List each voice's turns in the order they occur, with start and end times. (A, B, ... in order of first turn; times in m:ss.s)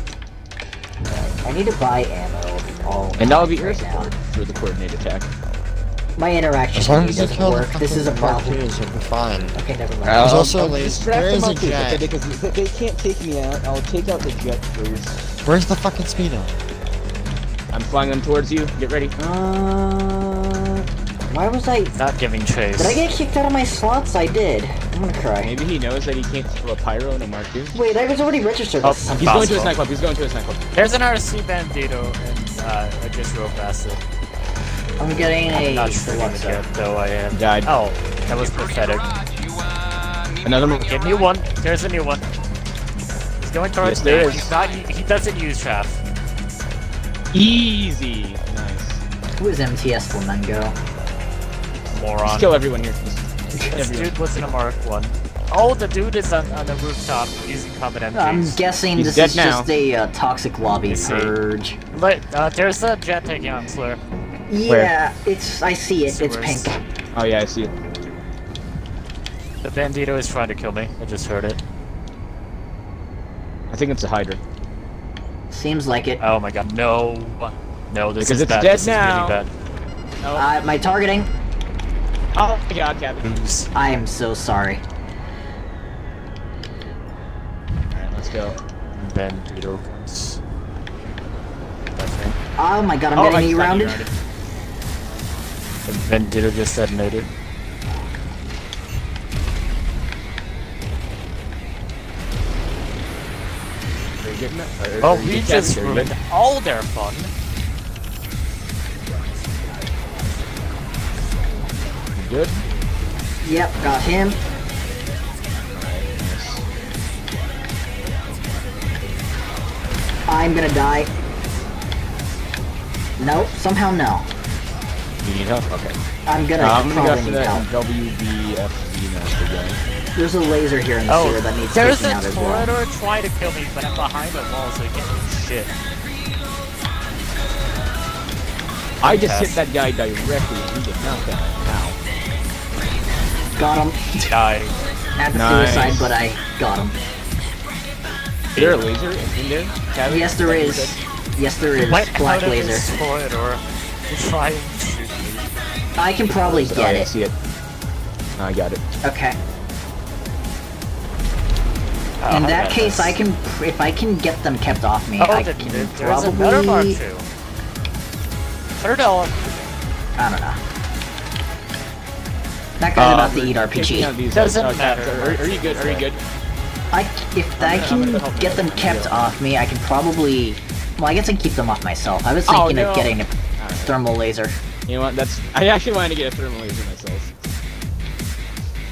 0:01.1-0:04.1 A
0:03.2-0:05.3 B
0:06.2-0:08.7 A
0:06.8-0:09.5 C
0:09.5-0:10.4 A
0:10.0-0:15.2 B
0:10.2-0:12.1 C
0:15.4-0:16.5 C
0:17.7-0:19.1 B
0:19.2-0:22.0 A
0:22.0-0:23.0 D
0:22.8-0:25.5 A
0:25.4-0:27.9 B
0:27.7-0:29.7 A
0:28.8-0:29.8 D
0:29.2-0:30.7 B
0:30.7-0:34.0 D
0:35.0-0:36.6 A
0:35.5-0:39.1 D
0:37.3-0:37.7 B
0:40.4-0:41.0 B
0:40.7-0:42.3 D
0:43.4-0:46.0 D
0:43.8-0:44.6 B
0:47.3-0:49.0 B
0:49.4-0:50.8 A
0:51.9-0:52.6 D
0:52.2-0:54.2 B
0:53.7-0:58.6 D
0:58.1-1:01.8 A
0:58.9-0:59.7 B
1:00.9-1:01.4 D
1:01.9-1:04.0 D
1:04.5-1:06.7 A
1:04.7-1:05.0 B
1:06.1-1:06.8 D
1:07.1-1:07.8 B
1:09.6-1:11.6 D
1:13.7-1:14.4 B
1:15.5-1:16.2 A
1:16.2-1:19.5 D
1:18.2-1:19.4 B
1:20.2-1:20.5 B
1:20.4-1:21.3 A
1:22.4-1:23.4 B
1:23.2-1:23.7 D
1:23.8-1:24.8 A
1:27.9-1:28.6 B
1:28.9-1:30.4 D
1:32.0-1:32.4 D
1:32.6-1:34.1 A
1:33.2-1:34.0 B
1:33.3-1:34.1 D
1:35.9-1:37.3 D
1:44.2-1:46.1 B
1:45.0-1:47.3 D
1:52.1-1:52.6 B
1:53.4-1:54.4 A
1:55.7-1:56.6 B
2:00.3-2:01.1 A
2:03.2-2:04.3 A
2:05.2-2:06.0 B
2:06.3-2:07.7 A
2:06.6-2:09.8 B
2:10.2-2:12.7 A
2:11.1-2:15.7 D
2:19.0-2:19.6 D
2:19.0-2:22.0 B
2:23.6-2:24.4 A
2:24.3-2:24.8 D
2:25.2-2:27.0 A
2:25.3-2:26.1 B
2:28.6-2:28.8 D
2:28.6-2:31.0 B
2:30.0-2:32.9 A
2:31.8-2:35.5 D
2:36.0-2:37.1 A
2:36.4-2:37.4 B
2:38.4-2:38.8 B
2:39.0-2:39.4 A
2:42.2-2:43.2 D
2:42.3-2:47.0 A
2:45.2-2:47.3 D
2:48.8-2:49.7 D
2:50.2-2:50.6 A
2:52.8-2:54.1 A
2:53.0-2:56.2 B
2:54.3-2:56.1 D
2:56.9-3:04.6 A
2:57.6-2:59.4 B
3:02.5-3:04.0 B
3:04.9-3:07.3 B